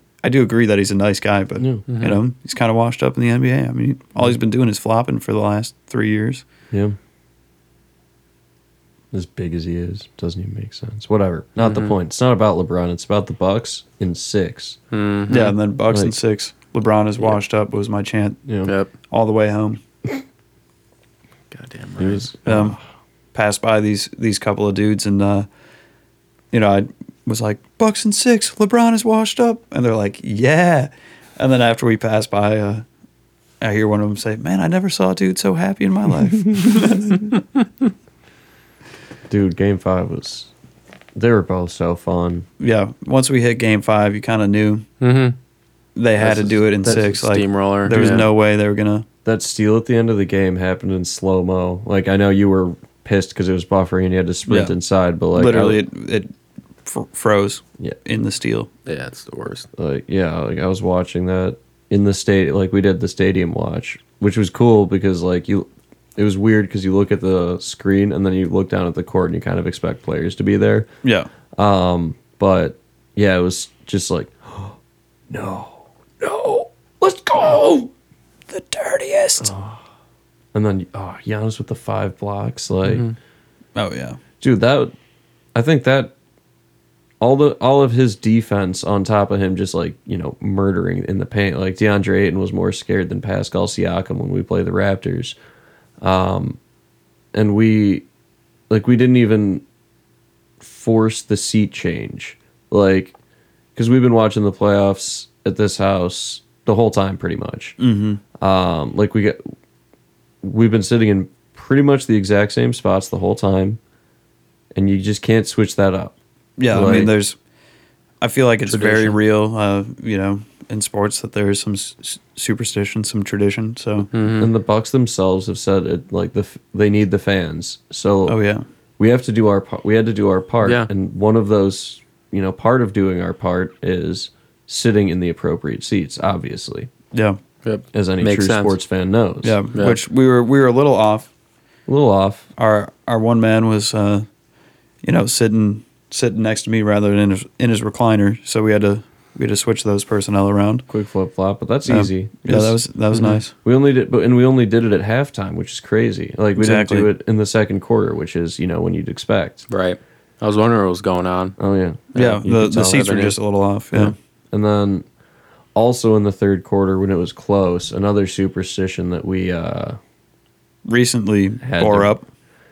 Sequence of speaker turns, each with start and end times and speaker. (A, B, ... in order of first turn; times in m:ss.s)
0:00.2-0:06.4 A
0:01.6-0:01.8 B
0:01.9-0:02.2 C
0:06.7-0:07.0 B
0:09.1-0:14.8 B
0:11.6-0:12.0 C
0:14.9-0:15.6 C
0:15.3-0:18.4 A
0:18.5-0:18.7 B
0:18.6-0:18.9 C
0:19.0-0:19.8 A
0:21.5-0:22.3 C
0:22.0-0:22.8 B
0:22.5-0:22.8 A
0:23.3-0:25.5 A
0:26.5-0:32.9 A
0:33.6-0:37.3 A
0:39.3-0:40.5 B
0:41.2-0:42.5 B
0:42.6-0:44.9 A
0:45.0-0:45.4 C
0:46.0-0:49.1 A
0:46.2-0:48.3 C
0:46.8-0:47.1 B
0:47.9-0:48.3 B
0:49.2-0:55.8 B
0:54.5-0:54.8 A
0:55.3-0:56.3 A
0:56.8-0:58.7 A
0:58.9-0:59.7 C
0:59.7-1:10.9 B
1:11.0-1:11.3 A
1:11.6-1:14.8 B
1:15.3-1:17.9 B
1:18.5-1:19.5 A
1:19.4-1:19.8 B
1:20.5-1:23.1 B
1:22.9-1:23.2 C
1:23.8-1:24.2 A
1:24.4-1:24.9 B
1:25.6-1:26.1 B
1:27.2-1:35.4 B
1:36.0-1:36.6 B
1:37.3-1:38.1 B
1:38.7-1:39.6 B
1:40.6-1:43.2 B
1:43.8-1:47.8 B
1:47.8-1:48.2 A
1:48.4-1:49.4 B
1:50.4-1:53.8 B
1:54.8-1:56.2 B
1:56.6-1:57.4 A
1:56.7-1:57.1 B
1:58.2-2:04.1 A
1:58.7-1:59.2 C
2:04.1-2:04.5 C
2:04.4-2:08.4 B
2:08.3-2:08.6 A
2:09.0-2:16.9 B
2:10.6-2:10.9 C
2:17.1-2:17.4 A
2:17.6-2:18.8 C
2:17.9-2:19.6 B
2:19.4-2:21.3 A
2:19.7-2:20.0 C
2:21.9-2:22.5 B
2:22.6-2:24.3 A
2:25.0-2:30.9 A
2:30.9-2:32.8 B
2:31.9-2:33.5 A
2:33.5-2:39.6 B
2:36.6-2:37.1 A
2:39.7-2:41.6 C
2:41.6-2:43.0 B
2:42.1-2:43.4 C
2:42.2-2:44.2 A
2:43.9-2:45.1 B
2:45.8-2:50.0 B
2:50.9-2:52.2 A
2:51.6-2:52.1 B